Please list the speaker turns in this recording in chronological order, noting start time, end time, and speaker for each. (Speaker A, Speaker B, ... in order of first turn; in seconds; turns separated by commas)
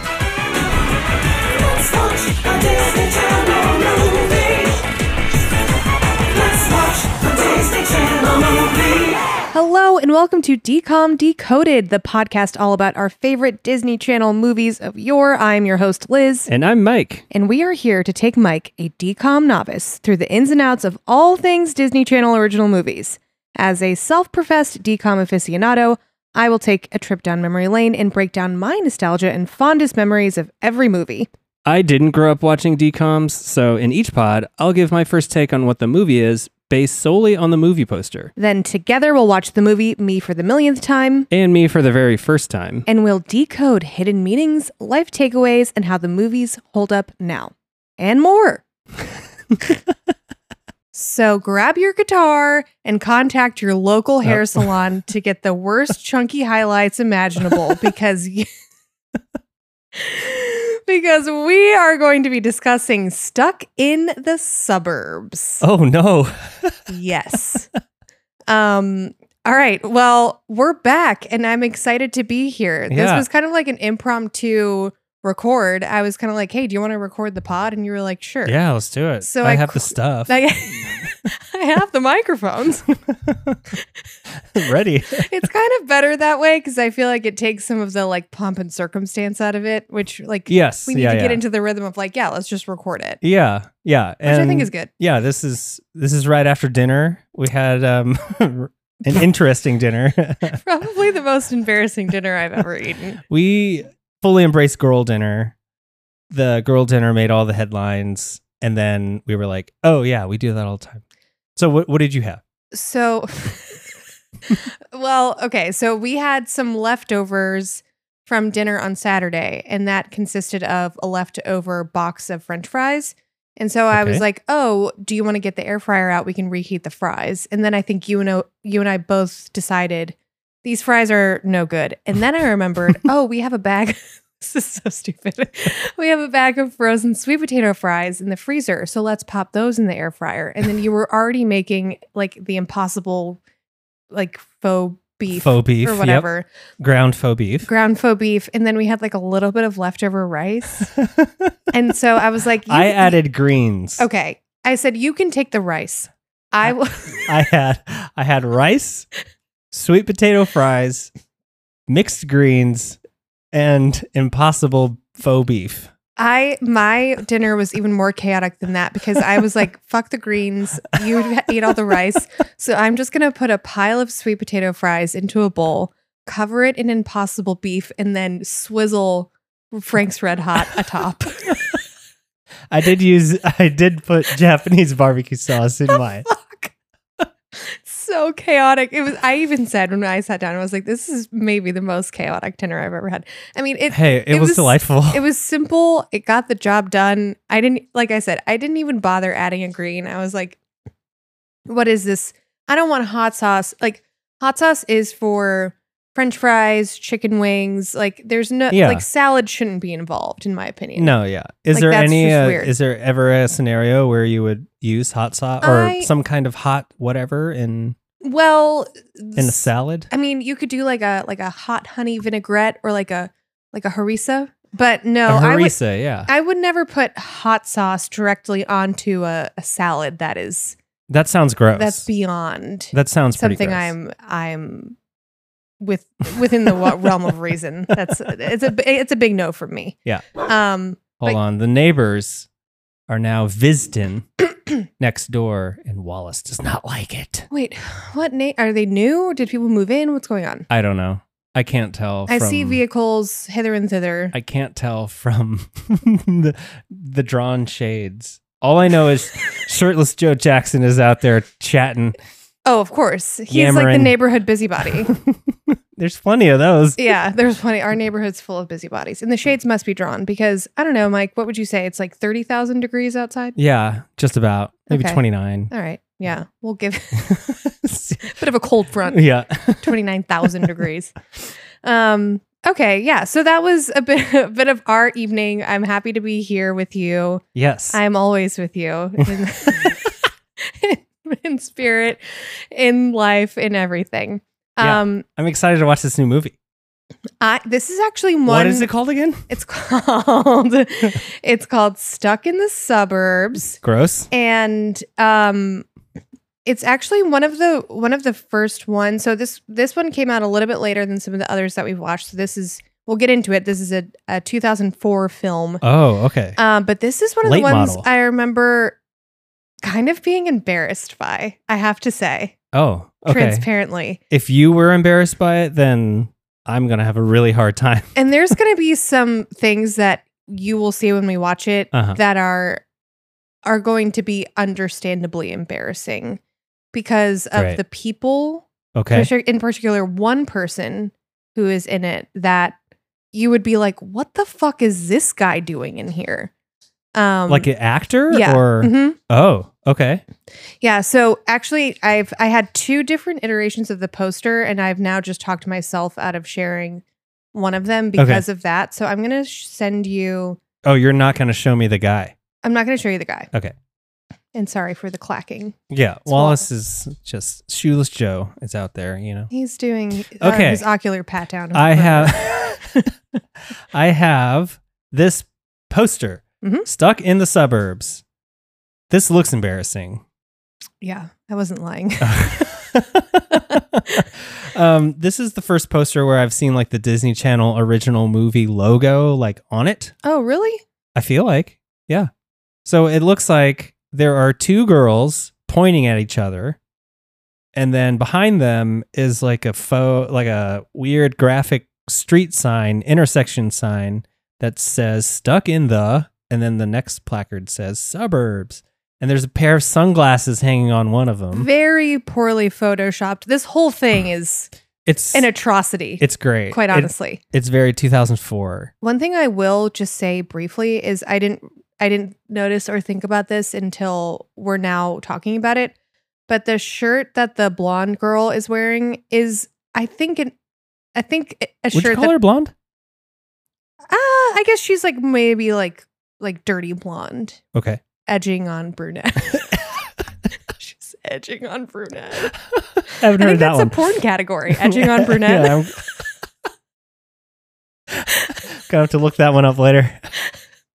Speaker A: 1.5-4.8, Speaker A: 6.3-9.3, Speaker B: 9.5-16.5, Speaker C: 16.5-17.2, Speaker B: 17.3-31.3, Speaker C: 31.6-38.3, Speaker B: 38.4-41.3, Speaker C: 41.3-42.9, Speaker B: 42.9-48.6, Speaker B: 50.9-58.5, Speaker C: 54.2-54.7, Speaker B: 59.9-65.6, Speaker C: 65.6-66.9, Speaker B: 66.9-67.7, Speaker B: 68.5-78.6, Speaker C: 72.9-73.3, Speaker C: 78.4-81.1, Speaker B: 79.2-82.9, Speaker C: 83.1-83.6, Speaker C: 84.5-85.2, Speaker B: 85.2-93.2, Speaker C: 90.5-91.4, Speaker C: 93.2-100.6, Speaker B: 94.2-94.9, Speaker B: 100.5-103.2, Speaker C: 103.3-105.5, Speaker C: 106.3-111.0, Speaker C: 111.5-112.4, Speaker B: 112.7-113.8, Speaker B: 114.9-143.4, Speaker C: 123.9-124.2, Speaker B: 144.1-146.5, Speaker C: 145.3-146.3, Speaker C: 146.8-147.7, Speaker B: 147.7-150.9, Speaker C: 151.0-151.5, Speaker B: 151.7-153.1, Speaker C: 152.7-154.0, Speaker B: 154.0-157.3, Speaker C: 157.2-159.1, Speaker C: 159.7-161.1, Speaker C: 161.9-163.0, Speaker C: 163.5-165.9, Speaker B: 166.2-181.5, Speaker C: 182.7-186.2, Speaker B: 185.9-186.7, Speaker B: 187.5-200.6, Speaker C: 193.9-195.2, Speaker B: 201.7-211.1, Speaker C: 208.7-209.0, Speaker C: 210.9-217.9, Speaker B: 211.7-212.7, Speaker B: 215.6-216.1, Speaker B: 218.2-230.8, Speaker C: 219.3-220.1, Speaker C: 225.2-226.3, Speaker C: 231.1-232.1, Speaker B: 231.7-234.9, Speaker C: 232.9-233.9, Speaker B: 235.8-241.4, Speaker C: 241.2-242.5, Speaker C: 243.1-244.3, Speaker C: 245.0-247.5, Speaker B: 247.5-250.7, Speaker C: 250.7-252.8, Speaker B: 252.3-254.3, Speaker C: 254.3-262.1, Speaker B: 262.6-265.1, Speaker C: 263.5-264.2, Speaker C: 264.9-267.1, Speaker B: 267.0-273.6, Speaker C: 273.6-275.7, Speaker B: 274.9-277.6, Speaker C: 277.2-278.4, Speaker B: 278.3-281.1, Speaker C: 279.1-280.0, Speaker B: 281.8-295.2, Speaker C: 287.5-288.0, Speaker C: 294.8-296.5, Speaker B: 297.4-298.9, Speaker C: 298.4-299.4, Speaker B: 299.5-303.8, Speaker C: 303.8-304.3, Speaker B: 304.3-305.9, Speaker B: 306.6-315.8, Speaker C: 315.8-316.6, Speaker B: 316.6-319.0, Speaker C: 317.4-318.1, Speaker B: 319.8-322.6, Speaker C: 322.7-323.7, Speaker B: 323.3-324.2, Speaker C: 324.3-328.1, Speaker B: 328.1-332.8, Speaker C: 331.9-332.2, Speaker B: 333.6-336.4, Speaker B: 336.9-342.8, Speaker C: 337.5-337.8, Speaker C: 338.9-339.3, Speaker B: 343.3-346.5, Speaker B: 347.1-347.7, Speaker C: 347.5-350.2, Speaker B: 348.3-349.2, Speaker B: 350.8-357.0, Speaker B: 357.5-360.6, Speaker C: 358.2-358.4, Speaker C: 360.8-362.3, Speaker B: 362.6-363.5, Speaker B: 364.5-366.6, Speaker C: 365.9-369.5, Speaker B: 369.5-373.1, Speaker C: 370.3-370.9, Speaker C: 371.7-372.8, Speaker C: 373.9-378.2, Speaker B: 376.6-376.9, Speaker C: 379.1-380.2, Speaker B: 381.0-382.7, Speaker C: 382.2-384.0, Speaker B: 383.5-384.2, Speaker C: 384.6-390.1, Speaker B: 390.2-390.8, Speaker C: 391.1-392.3, Speaker C: 392.8-396.8, Speaker C: 397.7-411.7, Speaker B: 411.5-414.7, Speaker C: 415.1-415.5, Speaker B: 415.3-417.4, Speaker C: 416.2-418.9, Speaker B: 419.0-425.9, Speaker B: 426.5-430.5, Speaker B: 431.1-432.3, Speaker C: 431.9-432.7, Speaker B: 434.1-437.6, Speaker C: 437.7-438.0, Speaker B: 438.2-439.9, Speaker B: 440.7-442.6, Speaker C: 443.0-443.9, Speaker B: 443.1-445.9, Speaker C: 444.7-446.0, Speaker C: 448.1-450.2